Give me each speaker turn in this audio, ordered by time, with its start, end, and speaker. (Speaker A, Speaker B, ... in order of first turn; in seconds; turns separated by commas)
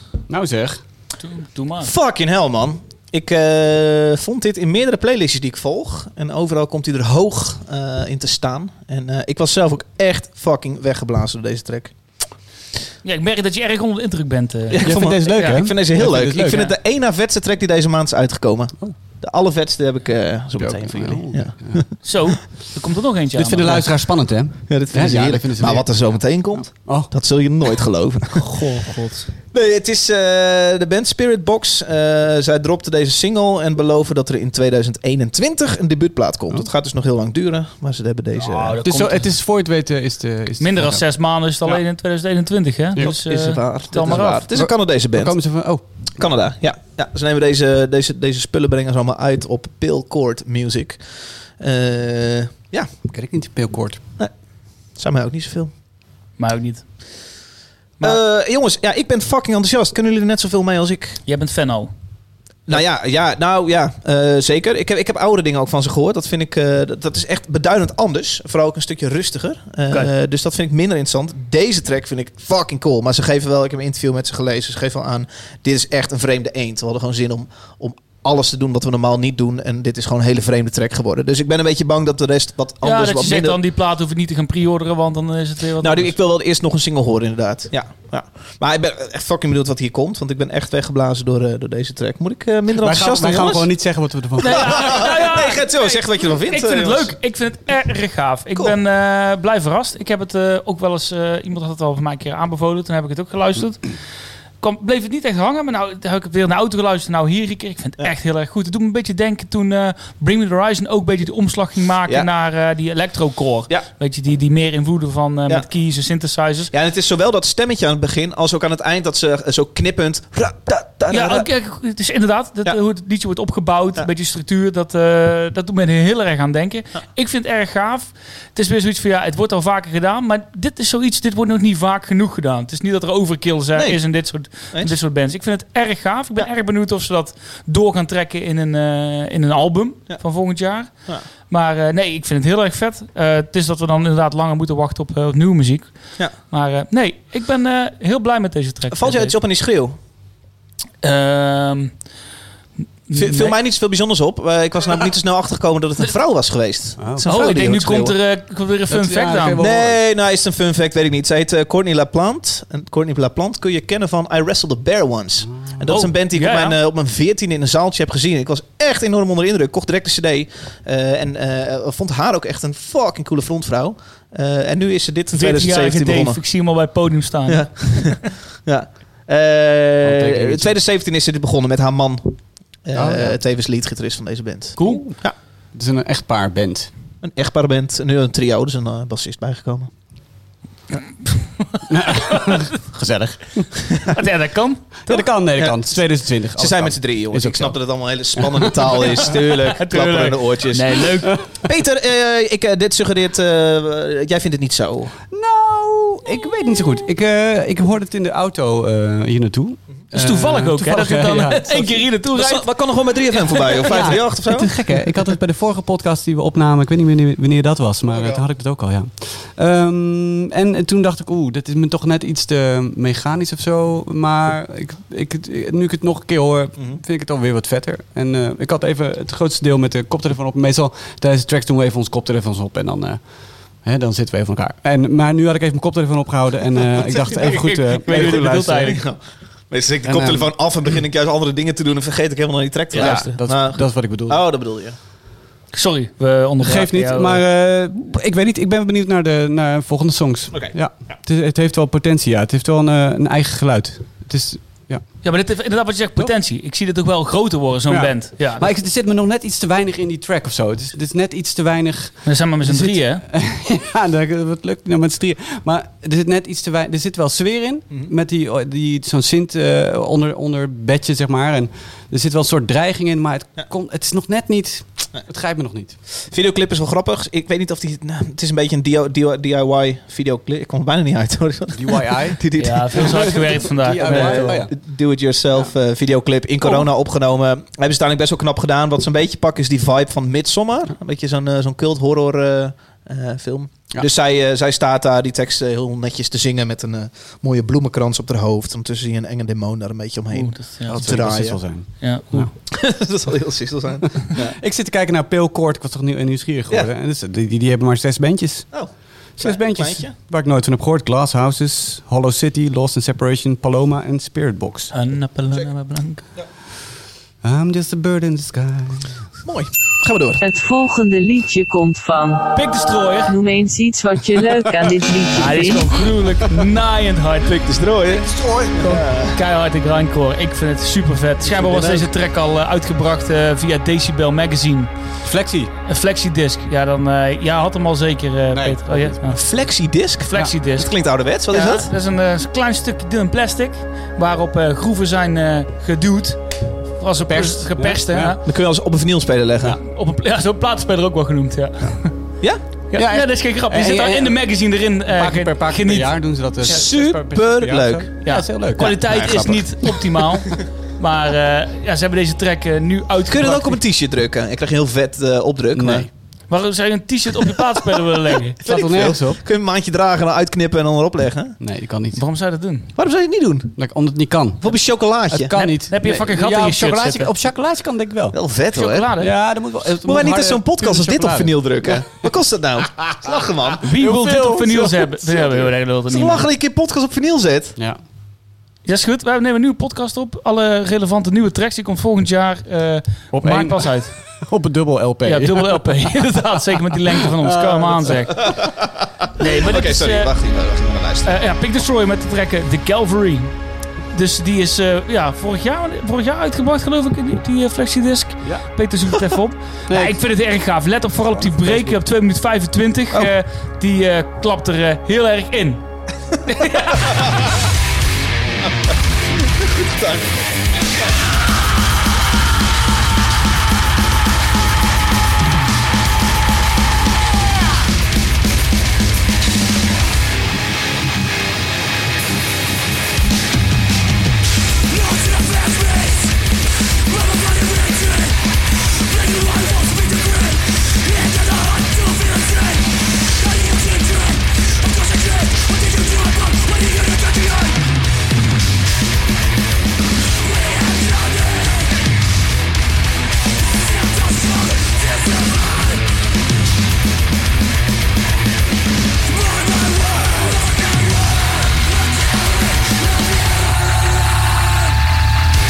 Speaker A: 0.3-0.8, Speaker B: 1.2-1.9, Speaker C: 1.8-12.0, Speaker B: 13.0-15.5, Speaker C: 14.7-21.8, Speaker A: 14.8-16.7, Speaker A: 20.6-21.8, Speaker B: 22.0-23.8, Speaker A: 23.3-27.1, Speaker C: 24.7-28.5, Speaker B: 28.4-29.3, Speaker C: 29.5-38.8, Speaker B: 38.3-39.2, Speaker A: 38.8-41.0, Speaker B: 40.6-44.5, Speaker C: 43.0-45.4, Speaker A: 44.1-45.8, Speaker C: 46.2-51.0, Speaker C: 51.6-52.9, Speaker A: 53.1-54.0, Speaker C: 55.0-55.7, Speaker B: 56.4-56.8, Speaker C: 58.0-61.2, Speaker B: 61.2-61.9, Speaker C: 62.7-83.6, Speaker B: 82.8-86.1, Speaker C: 85.8-93.7, Speaker A: 92.8-95.0, Speaker C: 94.4-97.1, Speaker B: 94.4-103.8, Speaker B: 104.6-116.7, Speaker C: 116.7-121.5, Speaker B: 121.1-140.9, Speaker C: 133.7-134.9, Speaker B: 141.5-149.4, Speaker C: 148.9-149.9, Speaker B: 151.0-151.9, Speaker B: 153.1-153.6, Speaker C: 153.1-158.1, Speaker A: 157.0-158.1, Speaker B: 157.2-159.6, Speaker A: 158.9-160.0, Speaker C: 159.6-176.4, Speaker B: 165.9-166.8, Speaker B: 175.3-178.2, Speaker C: 177.5-185.3, Speaker A: 180.0-180.7, Speaker A: 182.9-183.4, Speaker B: 184.8-185.1, Speaker A: 184.8-185.1, Speaker A: 185.7-186.9, Speaker C: 187.2-189.9, Speaker B: 190.9-191.3, Speaker A: 191.9-193.9, Speaker C: 193.9-194.2, Speaker B: 194.1-194.8, Speaker A: 195.1-197.8, Speaker C: 195.1-196.0, Speaker C: 196.5-205.1, Speaker A: 198.4-198.7, Speaker B: 199.6-201.3, Speaker A: 205.3-212.0, Speaker B: 210.1-212.7, Speaker C: 212.3-214.7, Speaker B: 213.3-214.2, Speaker A: 213.7-233.2, Speaker C: 218.1-218.4, Speaker A: 233.8-239.0, Speaker B: 237.2-239.0, Speaker C: 238.1-239.2, Speaker C: 239.7-244.9, Speaker A: 240.0-240.5, Speaker A: 242.9-244.4, Speaker B: 242.9-243.3, Speaker B: 245.7-247.4, Speaker A: 246.6-255.0, Speaker B: 255.2-258.6, Speaker A: 257.9-275.9, Speaker B: 262.2-263.2, Speaker C: 276.3-301.6, Speaker A: 281.7-282.4, Speaker B: 282.6-284.6, Speaker A: 283.0-284.7, Speaker B: 300.3-301.1, Speaker A: 300.9-302.5, Speaker B: 302.0-302.5, Speaker C: 302.7-304.6, Speaker A: 304.3-308.7, Speaker C: 308.7-310.1, Speaker A: 309.4-314.9, Speaker B: 314.9-316.2, Speaker A: 317.4-319.1, Speaker C: 319.4-320.4, Speaker D: 320.4-322.4, Speaker B: 322.5-323.3, Speaker D: 323.3-325.9, Speaker B: 325.3-327.7, Speaker C: 327.6-329.4, Speaker B: 328.8-334.9, Speaker C: 331.5-332.1, Speaker A: 335.2-335.7, Speaker B: 335.9-339.4, Speaker A: 338.5-339.2, Speaker C: 339.2-341.9, Speaker B: 340.3-340.9, Speaker B: 341.5-346.4, Speaker B: 347.0-348.4, Speaker A: 347.3-348.4, Speaker C: 348.4-349.8, Speaker B: 349.6-352.1, Speaker B: 352.9-356.1, Speaker A: 352.9-354.4, Speaker A: 355.1-359.3, Speaker C: 356.6-358.1, Speaker B: 358.2-363.8, Speaker C: 358.8-359.7, Speaker C: 363.3-366.1, Speaker A: 365.7-366.1, Speaker B: 366.5-368.6, Speaker C: 368.6-371.6, Speaker A: 368.6-369.4, Speaker A: 371.6-372.2, Speaker B: 372.1-372.9, Speaker C: 372.9-373.8, Speaker A: 373.8-374.7, Speaker C: 374.6-375.5, Speaker A: 375.3-378.4, Speaker B: 375.6-377.3, Speaker C: 378.3-379.1, Speaker B: 378.7-379.3, Speaker A: 379.2-382.2, Speaker C: 380.0-383.9, Speaker A: 383.8-385.7, Speaker B: 383.8-386.5, Speaker C: 386.1-387.8, Speaker B: 388.9-394.1, Speaker A: 393.3-395.9, Speaker B: 395.2-398.6, Speaker A: 397.4-398.4, Speaker C: 398.4-401.4, Speaker B: 399.4-400.3, Speaker B: 401.2-403.5, Speaker B: 404.1-415.8, Speaker A: 409.9-410.1, Speaker A: 411.4-412.0, Speaker B: 416.4-417.2, Speaker C: 416.9-417.5, Speaker C: 419.3-420.5, Speaker B: 435.6-436.1, Speaker B: 439.4-440.6, Speaker B: 442.0-442.8, Speaker B: 443.6-444.4, Speaker B: 445.1-447.7, Speaker B: 460.2-460.6